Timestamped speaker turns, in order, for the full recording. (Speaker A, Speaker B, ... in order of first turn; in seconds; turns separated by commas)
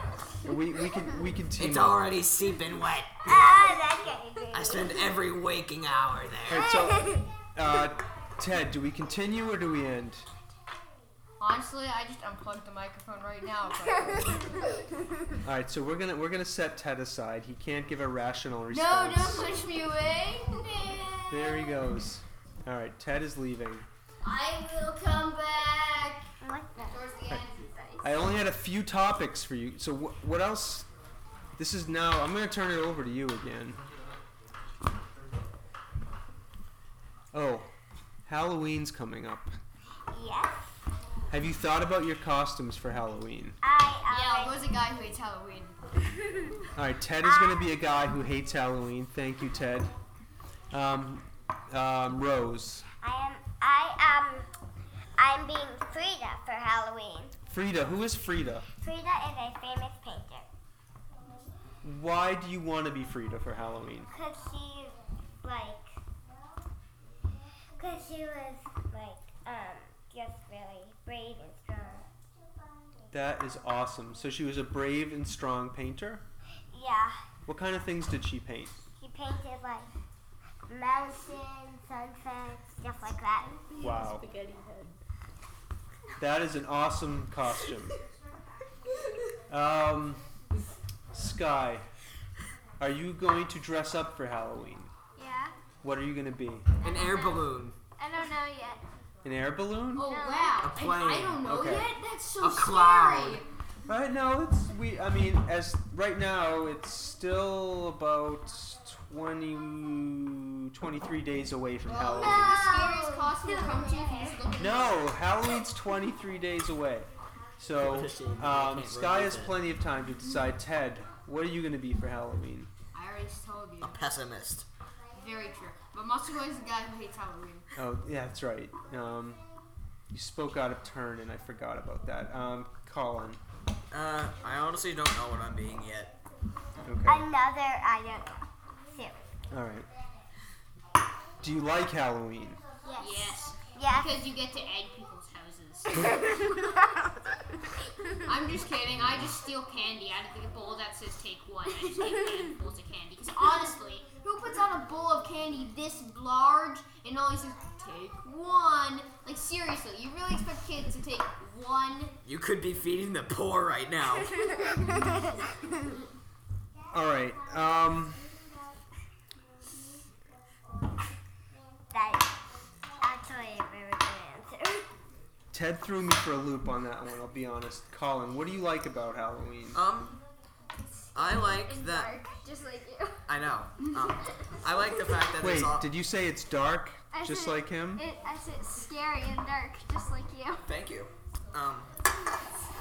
Speaker A: 0.4-2.2, Speaker B: 1.6-3.1, Speaker C: 3.3-5.0, Speaker B: 4.5-6.7, Speaker A: 6.5-10.3, Speaker C: 6.5-7.3, Speaker D: 11.4-14.6, Speaker A: 15.4-19.5, Speaker D: 18.7-21.8, Speaker A: 21.3-23.9, Speaker D: 24.2-28.2, Speaker C: 26.4-27.0, Speaker A: 28.0-30.9, Speaker A: 31.6-33.8, Speaker A: 37.3-37.7, Speaker A: 38.3-39.5, Speaker C: 40.1-40.7, Speaker A: 41.3-43.6, Speaker C: 43.6-44.6, Speaker D: 44.1-45.8, Speaker A: 46.8-49.9, Speaker C: 47.2-47.7, Speaker A: 50.7-52.9, Speaker C: 53.0-54.5, Speaker C: 55.2-57.4, Speaker A: 57.5-58.7, Speaker C: 58.8-60.5, Speaker A: 61.8-64.1, Speaker C: 64.1-66.0, Speaker C: 67.8-72.0, Speaker A: 73.1-76.2, Speaker C: 76.7-77.2, Speaker A: 77.5-78.8, Speaker C: 79.0-79.9, Speaker C: 80.7-83.5, Speaker D: 83.7-85.0, Speaker A: 83.8-84.2, Speaker A: 86.2-88.0, Speaker A: 89.5-90.2, Speaker A: 91.1-91.9, Speaker A: 92.8-94.9, Speaker E: 95.2-95.5, Speaker A: 95.8-96.7, Speaker B: 96.8-97.8, Speaker E: 96.8-97.4, Speaker E: 98.0-98.8, Speaker A: 99.2-100.1, Speaker D: 100.0-103.5, Speaker E: 100.0-100.6, Speaker B: 100.6-101.5, Speaker A: 101.4-101.9, Speaker B: 102.4-103.4, Speaker A: 103.9-112.7, Speaker D: 111.9-115.1, Speaker C: 112.2-114.4, Speaker A: 114.6-122.7, Speaker B: 117.8-119.6, Speaker D: 122.9-124.0, Speaker B: 123.8-124.7, Speaker D: 125.1-127.7, Speaker A: 127.8-129.4, Speaker A: 130.1-133.4, Speaker B: 133.9-136.1, Speaker A: 136.8-137.3, Speaker C: 137.1-139.3, Speaker A: 139.5-139.9, Speaker A: 141.4-142.6, Speaker E: 142.9-143.3, Speaker D: 143.0-146.2, Speaker C: 143.7-144.1, Speaker D: 148.2-162.1, Speaker B: 162.2-164.3, Speaker C: 164.4-165.4, Speaker A: 166.9-168.2, Speaker C: 171.9-172.3, Speaker C: 173.0-174.9, Speaker A: 175.5-179.8, Speaker B: 179.7-180.2, Speaker E: 180.9-183.2, Speaker B: 181.1-182.2, Speaker B: 183.3-185.9, Speaker A: 185.4-188.1, Speaker E: 187.1-190.6, Speaker B: 190.7-191.9